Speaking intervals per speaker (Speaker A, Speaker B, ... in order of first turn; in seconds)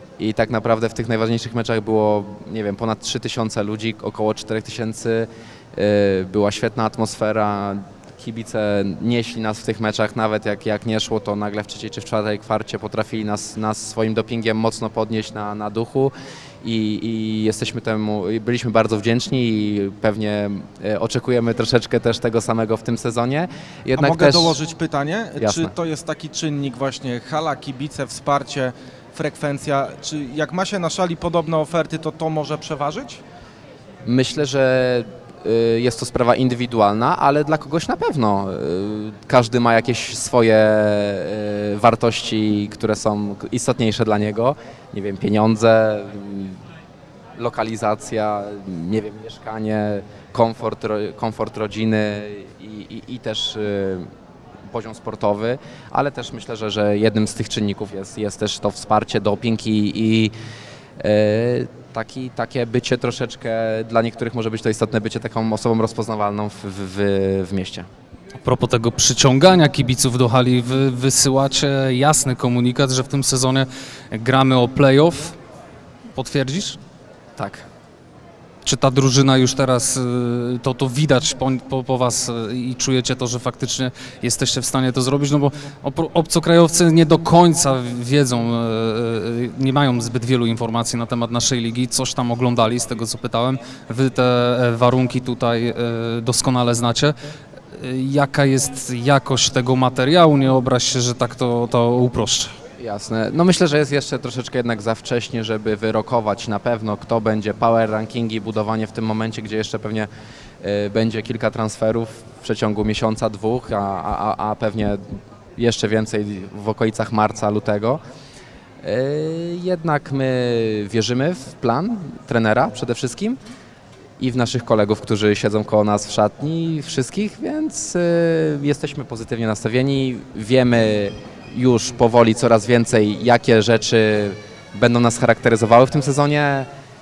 Speaker A: 0.2-16.1, 16.6-24.5, 25.4-25.7, 34.1-46.6, 47.4-54.1, 54.7-60.3, 61.0-67.9, 77.4-77.7, 102.8-110.1, 110.6-115.0, 115.6-118.0, 118.8-123.4, 124.2-136.7
Speaker B: 24.0-33.2
Speaker C: 68.4-75.4, 76.1-76.8, 78.6-97.1, 97.7-102.5